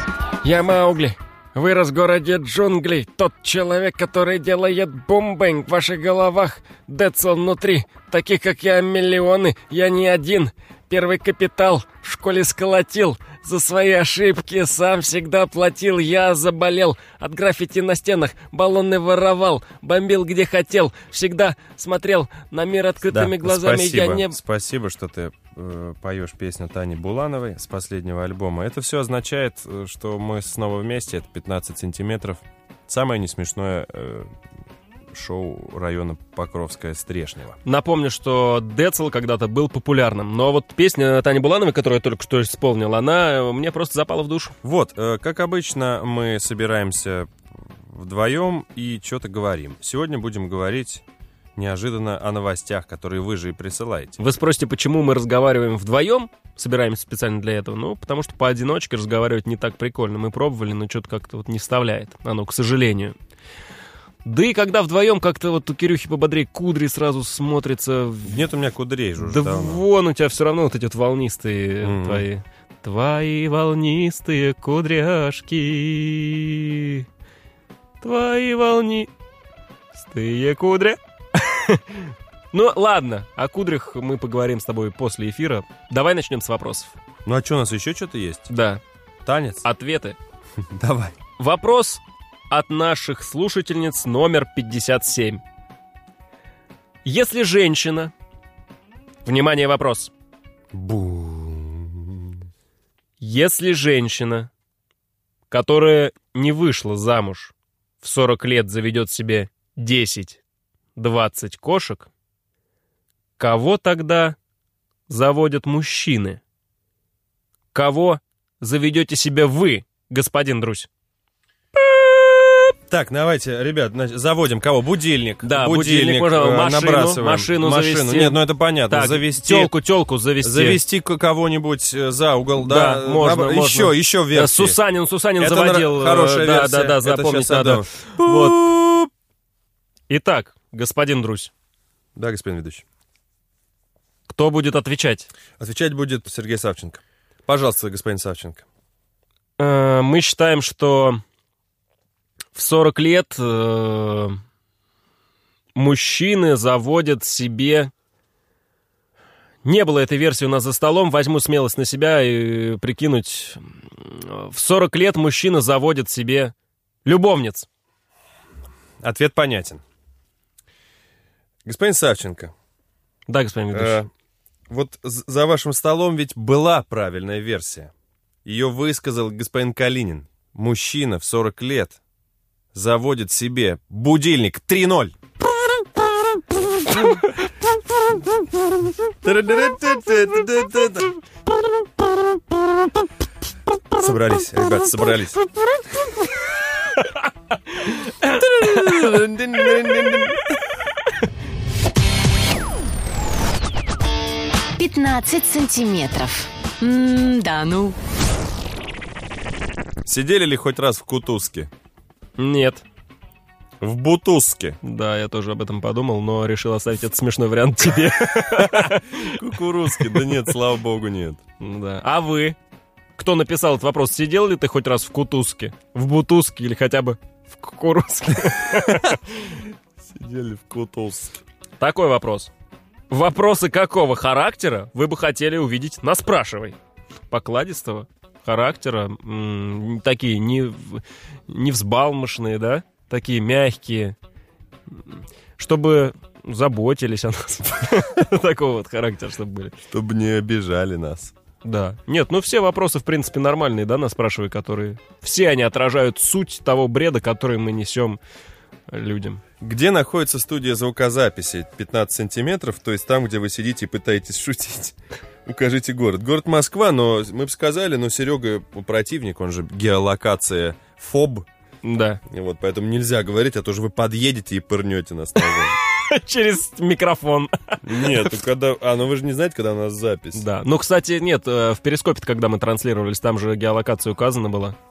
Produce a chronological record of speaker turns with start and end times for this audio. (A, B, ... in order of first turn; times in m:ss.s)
0:00.4-0:24.4 A
0:23.1-0:34.3 B
0:35.1-0:37.6 B
0:37.6-0:44.5 A
0:44.6-0:51.0 B
0:51.6-0:54.2 B
0:54.2-1:03.1 A
1:04.2-1:08.5 A
1:08.2-1:09.8 B
1:09.2-1:17.0 A
1:11.8-1:12.2 B
1:18.0-1:19.1 A
1:20.0-1:26.9 A
1:27.2-1:28.5 B
1:28.5-1:28.8 A
1:29.2-1:29.6 B
1:29.6-1:30.2 A
1:30.6-1:31.2 B
1:31.4-1:35.4 A
1:37.0-1:38.1 A
1:39.2-1:40.1 A
1:40.7-1:42.4 B
1:43.2-1:44.5 A
1:45.5-1:50.4 A
1:51.0-1:52.1 A
1:53.4-1:54.4 A
1:55.1-1:56.4 A
1:57.7-2:00.9 A
2:01.8-2:02.7 A
2:02.9-2:09.7 B
2:05.4-2:10.8 A
2:10.4-2:14.8 B
2:12.6-2:18.6 A
2:15.4-2:19.1 B
2:20.1-2:21.5 A
2:22.2-2:22.8 B
2:24.3-2:25.3 A
2:25.6-2:28.6 B
2:29.6-2:31.2 A
2:32.5-2:34.4 A
2:35.7-2:37.9 A
2:39.6-2:46.5 A
2:47.0-2:47.7 A
2:49.0-2:49.8 B
2:51.6-2:52.5 B
2:53.3-2:54.0 A
2:53.7-2:54.1 B
2:54.7-2:57.9 B
2:58.4-3:02.0 B
3:02.7-3:05.2 B
3:09.0-3:11.2 B
3:13.9-3:15.4 B
3:16.9-3:19.8 A
3:18.2-3:20.4 B
3:24.8-3:28.0 C
3:30.0-3:31.7 B
3:32.4-3:32.8 A
3:33.8-3:34.8 B
3:34.8-3:40.4 A
3:38.5-3:41.4 B
3:41.6-3:42.6 A
3:43.2-3:49.6 A
3:48.7-3:49.1 B
3:50.0-3:51.4 B
3:51.8-3:52.5 A
3:53.1-3:56.8 A
3:57.3-4:04.2 A
4:04.9-4:09.7 A
4:09.9-4:11.3 B
4:11.6-4:18.2 A
4:18.9-4:19.4 A
4:19.6-4:24.9 B
4:25.4-4:31.5 B
4:31.8-4:32.2 A
4:32.3-4:35.8 B
4:35.4-4:38.3 A
4:37.8-4:40.4 B
4:40.3-4:44.8 A